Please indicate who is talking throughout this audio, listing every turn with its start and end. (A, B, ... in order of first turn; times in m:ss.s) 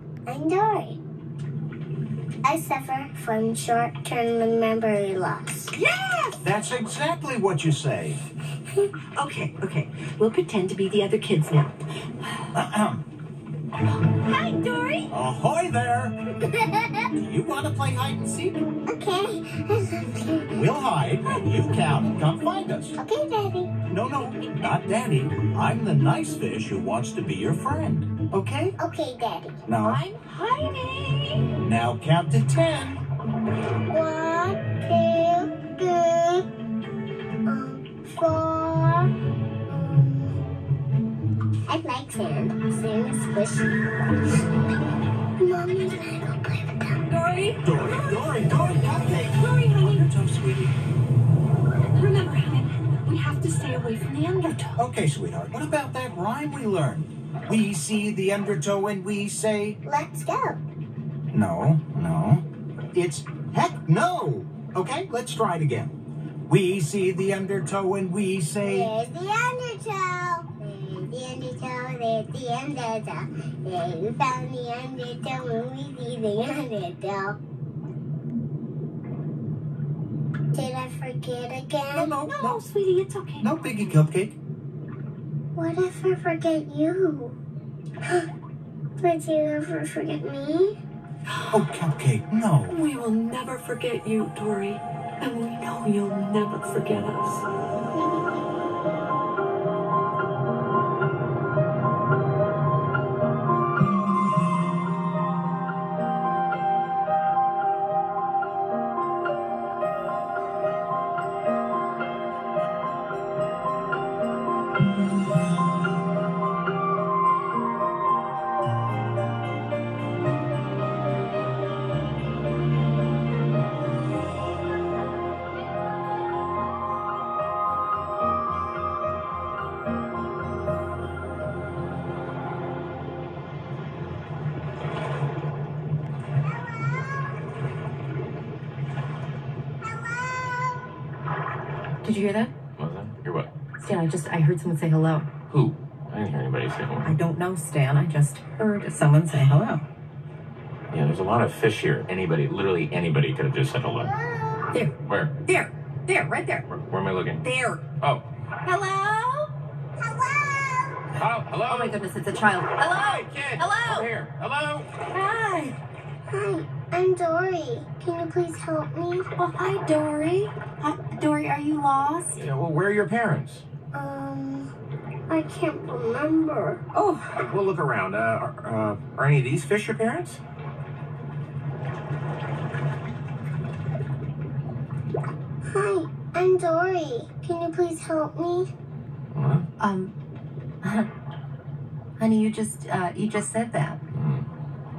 0:00.2-0:01.0 A
0:02.4-0:05.7 A
0:05.8-0:06.3 B
0:06.4-0:08.2 C
0:09.2-0:12.3 B
0:12.5-0:13.0 C
0:14.3-0:15.1 B
0:15.1-0:16.2 C
0:16.4-0:17.1 A
0:17.1-0:18.6 C
0:18.9-0:20.6 A
0:20.5-0:23.0 C
0:23.0-0:23.7 A
0:23.8-0:28.8 C
0:28.8-0:29.6 A
0:29.6-0:30.0 C
0:29.9-0:31.4 B
0:31.6-0:33.0 C
0:33.9-0:36.5 A
0:37.4-0:39.1 A
0:39.7-0:40.4 A
0:41.7-0:44.4 A
0:45.4-0:47.1 A
0:47.1-0:48.0 B
0:47.6-0:50.8 C
0:48.8-0:49.9 B
0:51.9-0:54.7 B
0:54.8-0:59.8 C
0:59.8-1:00.6 A
1:01.3-1:06.0 C
1:06.5-1:08.9 C
1:08.6-1:17.4 A
1:20.5-1:22.1 A
1:21.9-1:22.6 C
1:22.3-1:23.4 B
1:23.4-1:24.3 C
1:25.6-1:27.4 A
1:29.0-1:30.8 A
1:31.5-1:32.8 C
1:32.7-1:37.4 B
1:35.2-1:36.8 D
2:22.0-2:22.5 D
2:22.8-2:23.5 E
2:23.8-2:25.2 D
2:25.5-2:27.2 E
2:27.0-2:29.8 D
2:27.2-2:27.8 B
2:29.0-2:29.8 B
2:30.9-2:34.1 E
2:34.0-2:34.8 A
2:35.0-2:35.3 E
2:35.5-2:36.6 D
2:36.1-2:36.5 B
2:36.7-2:37.4 E
2:37.4-2:37.8 D
2:38.6-2:39.5 D
2:40.0-2:41.0 A
2:41.2-2:42.0 E
2:41.7-2:44.1 D
2:42.9-2:44.9 E
2:45.1-2:45.8 D
2:46.3-2:49.3 A
2:49.4-2:52.4 D
2:52.4-2:53.6 E
2:53.9-2:54.7 A
2:55.3-2:56.8 A
2:56.9-2:57.4 D
2:57.5-3:00.4 E
3:05.7-3:08.7 A
3:09.3-3:09.7 E
3:09.8-3:10.1 D
3:10.8-3:11.1 D
3:12.2-3:14.0 D
3:14.1-3:14.5 E